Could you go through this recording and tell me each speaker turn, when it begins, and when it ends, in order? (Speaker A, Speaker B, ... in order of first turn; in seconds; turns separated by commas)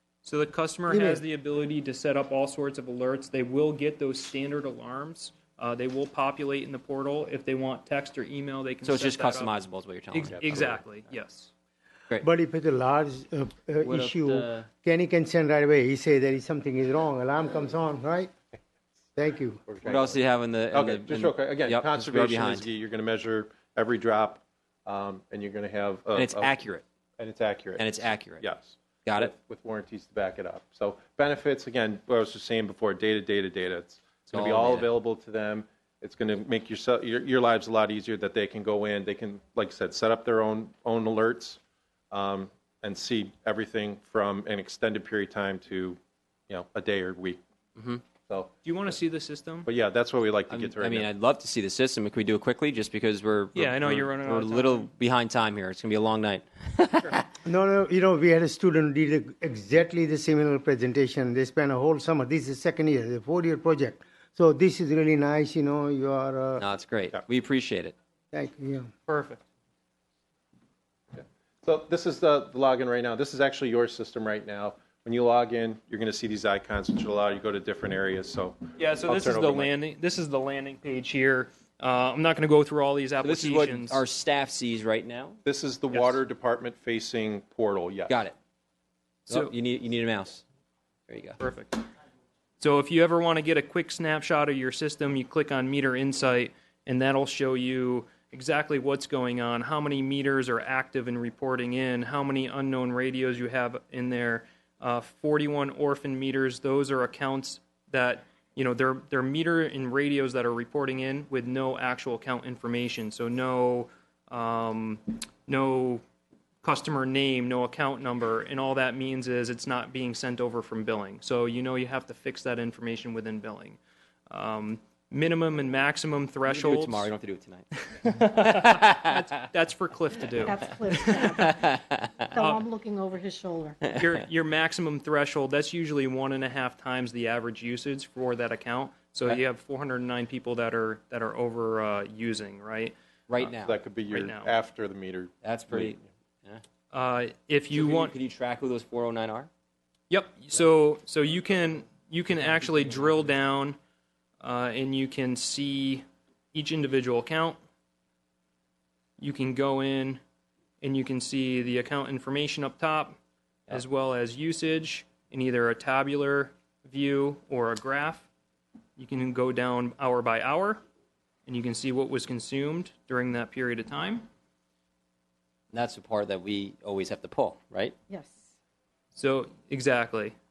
Speaker A: 0.2-9.6, Speaker B: 0.9-1.2, Speaker C: 8.8-10.8, Speaker A: 10.1-11.5, Speaker D: 10.2-10.8, Speaker B: 12.2-18.3, Speaker C: 13.8-14.7, Speaker B: 19.2-19.7, Speaker D: 19.7-26.6, Speaker C: 19.8-22.7, Speaker C: 26.1-26.8, Speaker D: 27.2-41.6, Speaker C: 27.8-28.4, Speaker C: 29.1-29.3, Speaker C: 34.3-34.9, Speaker D: 42.1-47.4, Speaker C: 47.8-48.0, Speaker A: 48.6-49.7, Speaker D: 49.6-51.1, Speaker C: 50.5-57.2, Speaker A: 53.5-54.9, Speaker B: 57.4-66.7, Speaker C: 66.6-67.9, Speaker B: 68.3-68.9, Speaker A: 69.1-69.4, Speaker D: 71.2-79.7, Speaker A: 78.8-84.0, Speaker C: 83.2-85.4, Speaker D: 85.5-88.2, Speaker A: 85.9-86.2, Speaker C: 88.1-88.4, Speaker C: 89.3-90.4, Speaker A: 89.3-89.5, Speaker C: 91.1-91.4, Speaker A: 91.4-91.9, Speaker A: 92.6-116.0, Speaker A: 116.6-127.1, Speaker C: 126.5-129.1, Speaker A: 128.0-131.5, Speaker E: 130.4-131.8, Speaker C: 131.4-132.1, Speaker E: 132.3-133.9, Speaker A: 132.4-132.6, Speaker A: 133.9-143.6, Speaker C: 143.3-143.7, Speaker D: 143.6-146.0, Speaker A: 144.1-144.6, Speaker C: 145.4-146.6, Speaker A: 146.9-148.2, Speaker C: 147.7-149.5, Speaker A: 150.1-153.8, Speaker A: 154.4-157.6, Speaker A: 159.2-160.2, Speaker A: 160.8-163.2, Speaker A: 163.7-168.3, Speaker A: 169.0-170.8, Speaker A: 171.5-174.3, Speaker C: 175.7-177.9, Speaker E: 178.1-178.5, Speaker A: 179.1-180.3